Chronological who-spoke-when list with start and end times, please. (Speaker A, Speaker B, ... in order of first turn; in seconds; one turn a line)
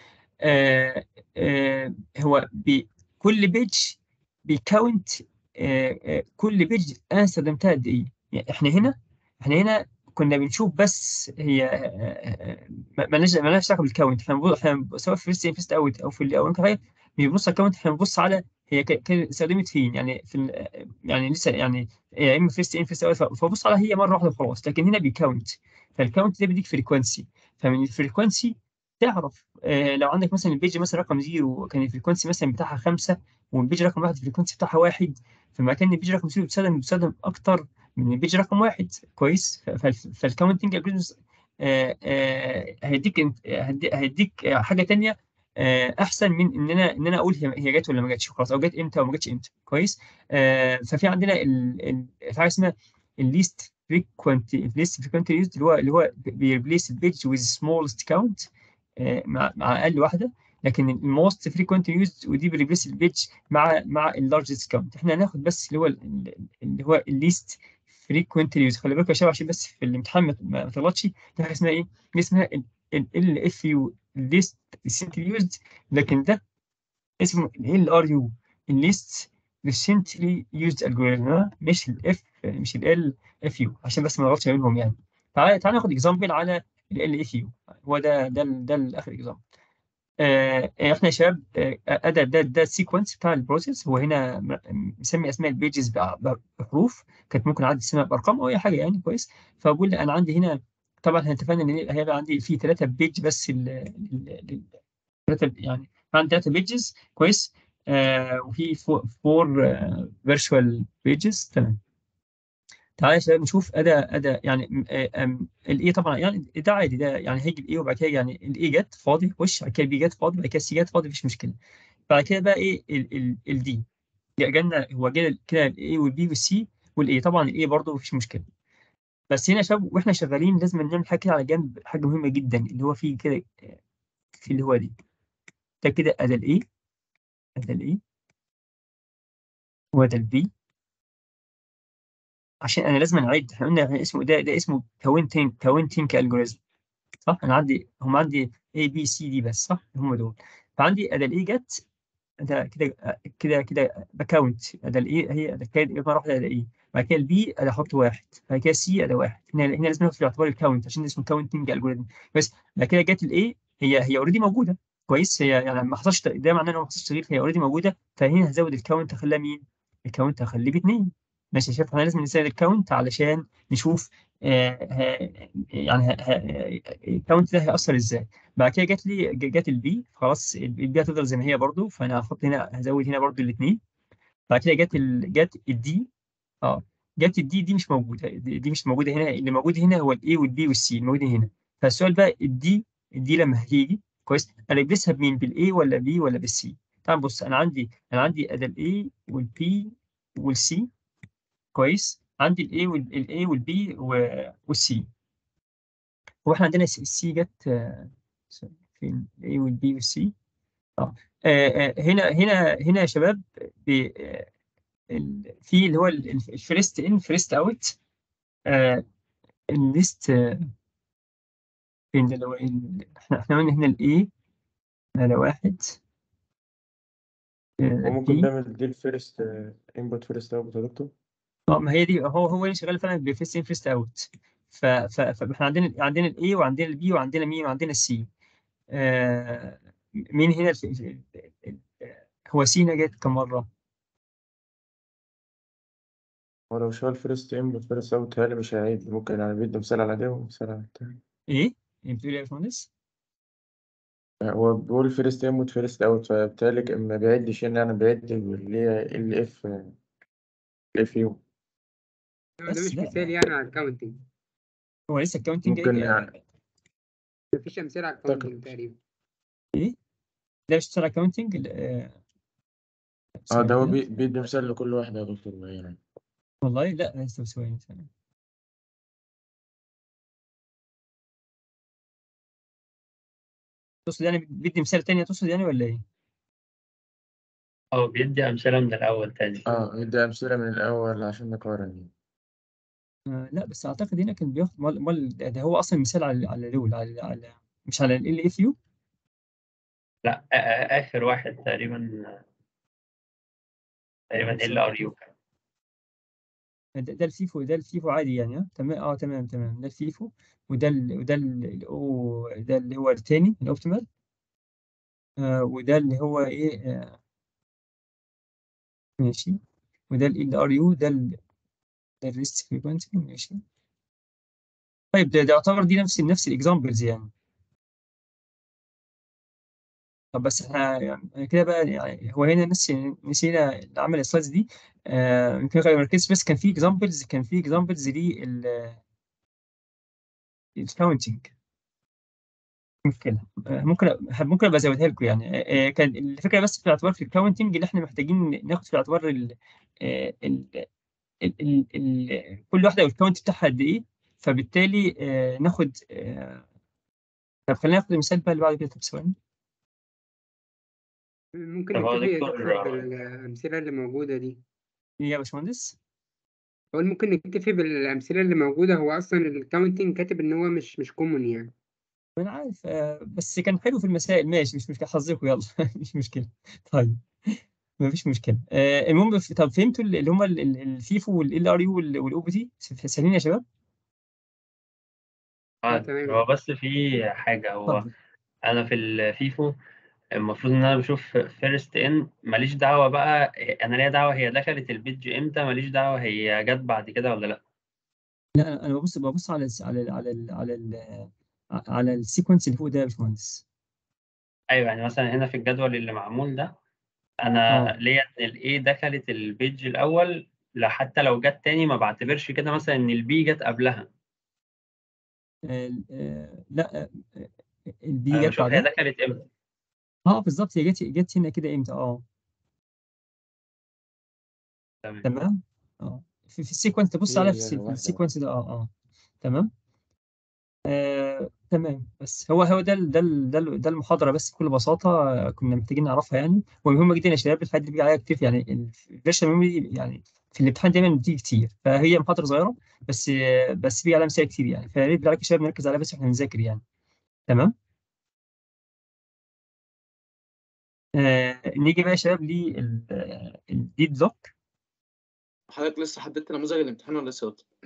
Speaker A: 0.4-58.5
Speaker A: 59.0-76.4
Speaker A: 77.2-89.4
Speaker A: 90.2-104.7
Speaker A: 105.3-111.8
Speaker A: 113.0-121.6
Speaker A: 122.1-123.8
Speaker A: 124.4-128.4
Speaker A: 129.3-133.8
Speaker A: 134.4-134.9
Speaker A: 135.8-136.6
Speaker A: 137.6-138.0
Speaker A: 139.9-140.5
Speaker A: 142.6-146.6
Speaker A: 147.3-151.8
Speaker A: 152.4-183.8
Speaker A: 184.5-186.1
Speaker A: 186.6-200.9
Speaker A: 201.8-205.1
Speaker A: 206.4-210.3
Speaker A: 211.0-214.5
Speaker A: 215.1-218.0
Speaker A: 218.7-219.0
Speaker A: 219.7-220.7
Speaker A: 222.1-224.3
Speaker A: 225.2-226.0
Speaker A: 227.8-228.5
Speaker B: 228.0-231.1
Speaker A: 231.7-238.3
Speaker A: 238.9-239.8
Speaker A: 240.3-243.7
Speaker B: 246.7-251.2
Speaker A: 251.5-252.9
Speaker B: 254.4-259.9
Speaker B: 261.0-261.4
Speaker C: 262.6-264.2
Speaker A: 262.7-263.4
Speaker A: 265.1-266.4
Speaker B: 265.7-266.3
Speaker C: 267.5-269.0
Speaker B: 268.2-268.6
Speaker A: 270.7-272.1
Speaker A: 273.4-274.0
Speaker B: 273.5-276.0
Speaker A: 276.6-278.1
Speaker A: 284.1-286.0
Speaker D: 287.9-289.7
Speaker B: 289.7-292.1
Speaker A: 293.3-298.8
Speaker D: 300.2-302.4
Speaker D: 304.3-305.3
Speaker A: 304.4-305.1
Speaker A: 307.0-314.1
Speaker A: 315.4-317.1
Speaker A: 319.2-319.6
Speaker A: 320.1-321.4
Speaker A: 322.2-323.6
Speaker A: 325.1-327.3
Speaker A: 330.3-339.0
Speaker A: 340.8-341.5
Speaker A: 343.0-350.9
Speaker A: 351.4-356.6
Speaker A: 357.7-359.3
Speaker C: 361.6-364.6
Speaker D: 361.9-363.0
Speaker A: 365.2-366.0
Speaker C: 366.9-371.7
Speaker A: 372.4-383.6
Speaker D: 385.9-388.1
Speaker C: 385.9-386.4
Speaker D: 388.6-389.8
Speaker D: 390.4-397.6
Speaker A: 398.6-403.6
Speaker D: 404.7-406.7
Speaker D: 407.4-414.1
Speaker A: 407.7-407.9
Speaker A: 415.7-417.5
Speaker A: 418.0-418.9
Speaker D: 418.3-419.4
Speaker A: 420.3-422.2
Speaker A: 425.2-428.9
Speaker B: 427.3-428.2
Speaker A: 429.4-429.7
Speaker A: 430.9-446.8
Speaker A: 447.5-447.7
Speaker A: 451.2-454.5
Speaker E: 455.7-457.7